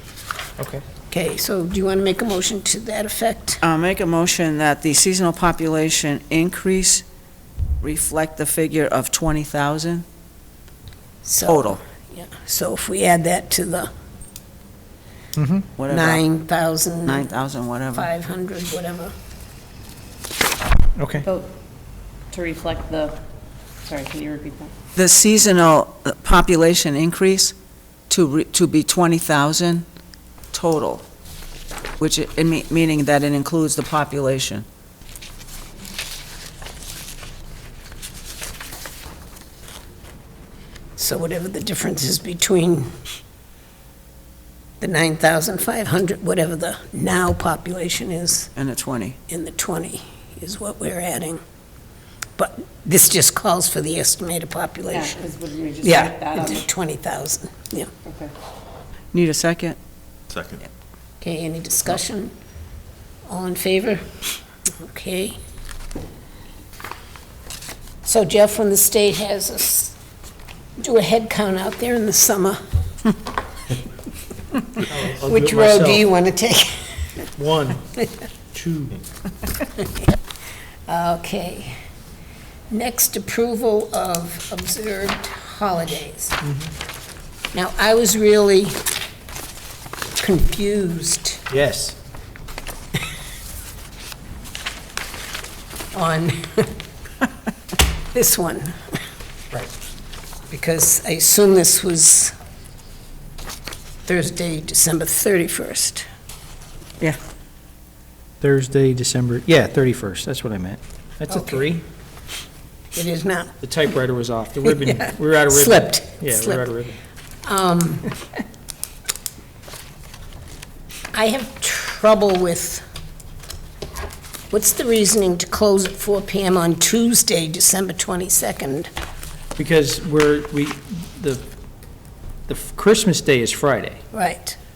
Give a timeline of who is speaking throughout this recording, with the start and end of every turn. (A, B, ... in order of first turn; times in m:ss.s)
0:00.6-0:00.8 A
0:01.1-0:03.6 B
0:03.6-0:07.0 C
0:07.8-0:10.0 C
0:11.2-0:13.9 B
0:11.4-0:11.8 C
0:15.4-0:15.7 A
0:15.8-0:16.2 C
0:15.9-0:17.3 B
0:17.0-0:18.1 C
0:17.9-0:19.1 B
0:21.0-0:21.2 A
0:21.2-0:21.5 D
0:22.3-0:23.2 D
0:23.8-0:24.7 D
0:24.9-0:27.5 C
0:28.1-0:29.8 C
0:30.5-0:31.0 C
0:32.0-0:34.6 C
0:41.0-0:42.9 B
0:44.8-0:48.5 B
0:48.6-0:49.2 C
0:49.3-0:51.4 B
0:52.4-0:55.2 B
0:54.9-0:56.6 D
0:55.8-0:57.9 B
0:58.0-0:58.3 D
0:59.1-0:59.8 C
1:01.2-1:02.3 B
1:03.3-1:04.1 B
1:04.8-1:05.4 B
1:08.0-1:09.9 B
1:10.8-1:12.6 B
1:15.0-1:17.3 B
1:15.1-1:15.9 A
1:17.4-1:17.8 A
1:18.5-1:18.9 A
1:20.9-1:21.8 B
1:22.7-1:26.4 B
1:27.5-1:28.8 B
1:30.2-1:31.4 B
1:31.5-1:31.9 A
1:35.9-1:36.7 B
1:38.1-1:38.8 B
1:40.5-1:42.3 B
1:44.0-1:46.0 B
1:48.4-1:51.8 A
1:51.3-1:51.7 B
1:52.9-1:53.6 B
1:53.6-1:56.9 A
1:54.6-1:56.7 B
1:57.4-1:58.1 B
2:01.1-2:02.8 B
2:04.5-2:08.9 B
2:09.6-2:11.4 A
2:12.5-2:14.0 A
2:14.1-2:14.6 B